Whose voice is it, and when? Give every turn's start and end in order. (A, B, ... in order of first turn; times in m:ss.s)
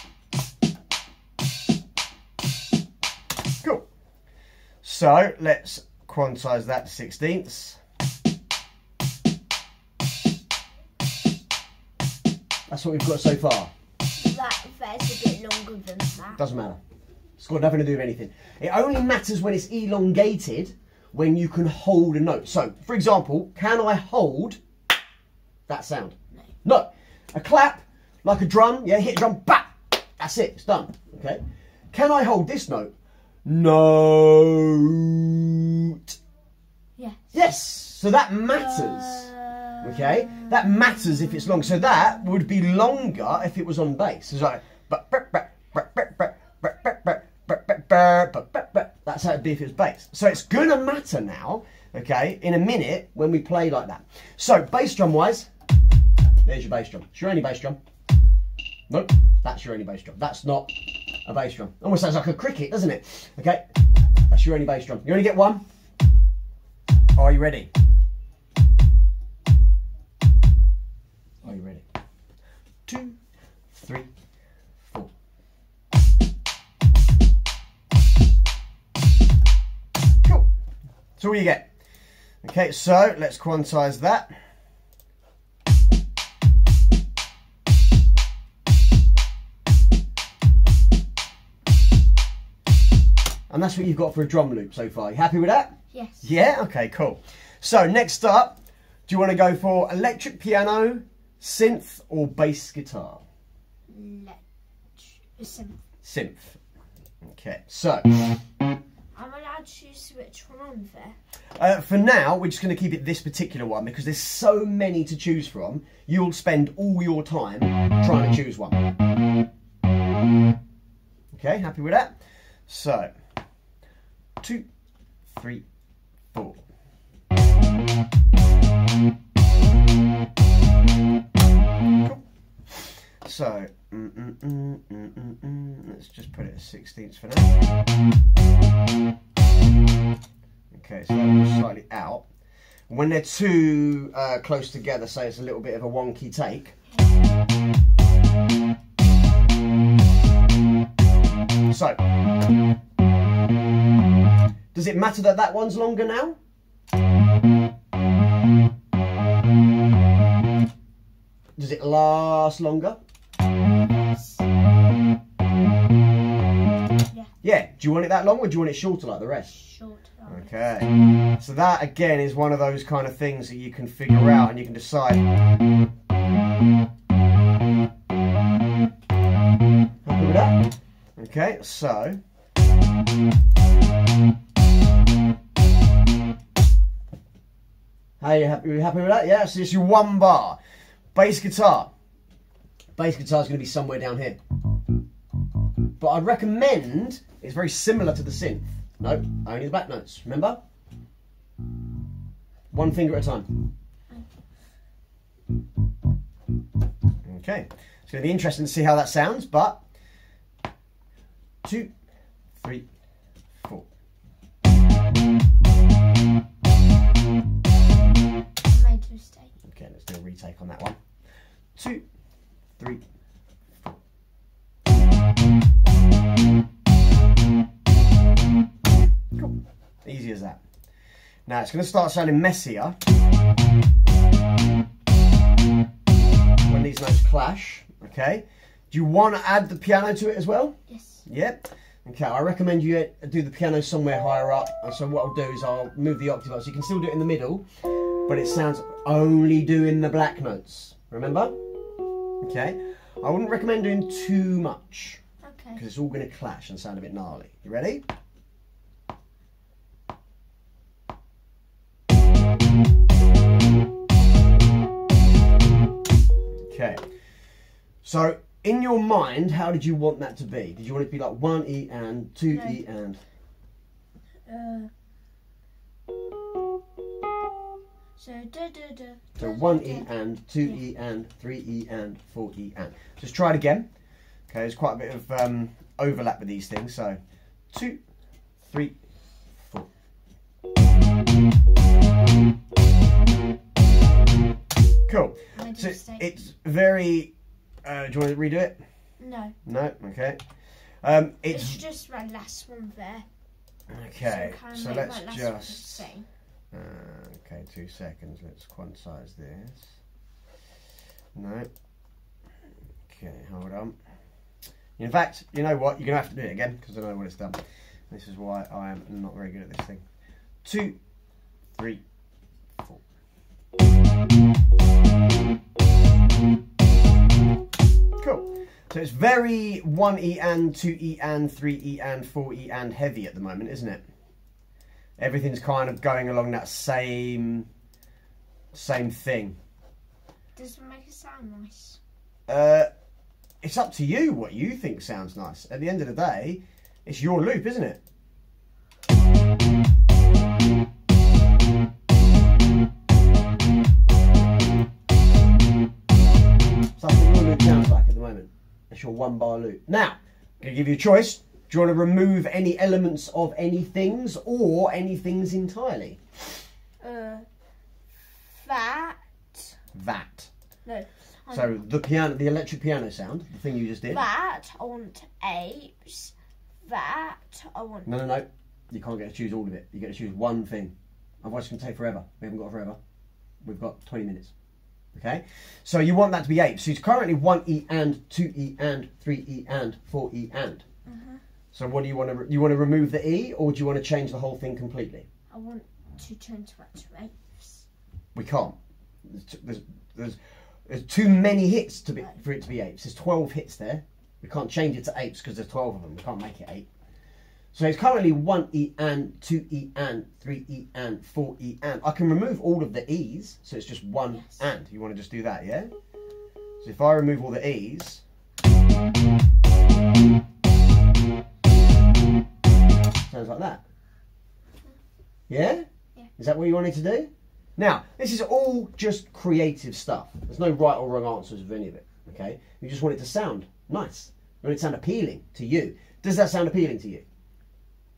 0:04.8-0:07.8 A
0:12.7-0:13.7 A
0:14.2-0:16.4 B
0:16.3-0:16.8 A
0:17.4-0:24.6 A
0:25.7-0:31.4 A
0:31.9-0:32.9 A
0:33.4-0:36.2 A
0:37.0-0:37.3 B
0:37.3-0:55.5 A
0:38.5-0:41.4 B
0:56.4-0:57.8 A
0:58.9-1:03.6 A
1:04.3-1:05.6 A
1:07.2-1:07.7 A
1:11.4-1:11.8 A
1:12.9-1:13.2 A
1:13.7-1:14.1 A
1:14.8-1:15.1 A
1:21.2-1:21.7 A
1:22.4-1:24.3 A
1:33.5-1:43.2 A
1:35.9-1:36.3 B
1:43.9-1:44.4 B
1:45.0-1:45.8 B
1:46.0-1:46.6 A
1:47.2-1:48.2 A
1:49.1-1:51.2 B
1:51.6-1:58.8 A
2:01.3-2:02.1 A
2:02.7-2:03.1 A
2:04.4-2:04.6 A
2:05.3-2:05.6 A
2:06.3-2:06.6 A
2:12.0-2:17.5 A
2:20.7-2:22.2 A
2:22.9-2:26.7 A
2:31.7-2:32.0 A
2:34.7-2:36.4 A
2:41.6-2:43.0 A
2:43.9-2:44.4 B
2:47.4-2:49.6 A
2:49.5-2:50.6 B
2:50.3-2:55.2 A
3:00.0-3:02.2 A
3:08.2-3:10.6 A
3:11.1-3:11.9 A
3:13.0-3:14.4 A
3:16.0-3:20.6 A
3:22.7-3:23.5 A
3:27.2-3:29.8 A
3:31.6-3:31.9 A
3:32.6-3:32.8 A
3:33.6-3:33.8 A
3:38.6-3:39.5 B
3:39.6-3:41.0 A
3:41.8-3:42.0 A
3:49.4-3:50.6 A
3:51.5-3:53.0 A
3:56.6-4:07.7 A
4:00.9-4:01.2 B
4:08.2-4:11.6 A
4:12.4-4:15.2 A
4:15.4-4:15.8 B
4:15.8-4:18.0 A
4:26.7-4:27.0 A
4:28.0-4:33.2 A
4:32.5-4:32.8 B
4:34.5-4:34.9 B
4:38.2-4:40.1 B
4:39.4-4:43.9 A
4:44.5-4:47.2 A
4:47.7-4:48.0 A
4:48.6-4:48.9 A
4:49.6-4:49.9 A
4:55.1-4:57.3 A
4:55.6-4:56.3 B
4:57.8-4:58.8 A
4:59.2-4:59.5 B
4:59.6-5:00.4 A
5:01.0-5:01.8 A
5:01.5-5:03.2 B
5:03.9-5:06.0 A
5:04.2-5:06.2 B
5:06.7-5:09.8 A
5:11.3-5:11.7 A
5:13.1-5:14.0 A
5:15.0-5:20.0 A
5:20.6-5:21.0 A
5:21.8-5:22.0 A
5:28.2-5:34.0 A
5:35.2-5:37.7 A
5:38.7-5:39.6 A
5:40.6-5:42.0 B
5:42.5-5:42.9 A
5:43.6-5:48.0 A
5:57.0-6:06.2 A
6:07.0-6:07.4 B
6:08.4-6:09.7 B
6:09.9-6:10.5 A
6:10.8-6:11.8 B
6:11.5-6:14.2 A
6:14.1-6:16.3 B
6:16.8-6:18.1 B
6:18.0-6:23.0 A
6:23.6-6:24.5 A
6:25.1-6:30.8 A
6:31.0-6:31.4 B
6:31.7-6:35.3 A
6:35.5-6:37.8 B
6:38.3-6:38.8 A
6:39.3-6:46.9 A
6:47.7-6:55.9 A
6:54.3-6:54.6 B
6:56.8-6:58.2 A
7:03.3-7:03.8 A
7:05.5-7:05.8 A
7:06.4-7:17.2 A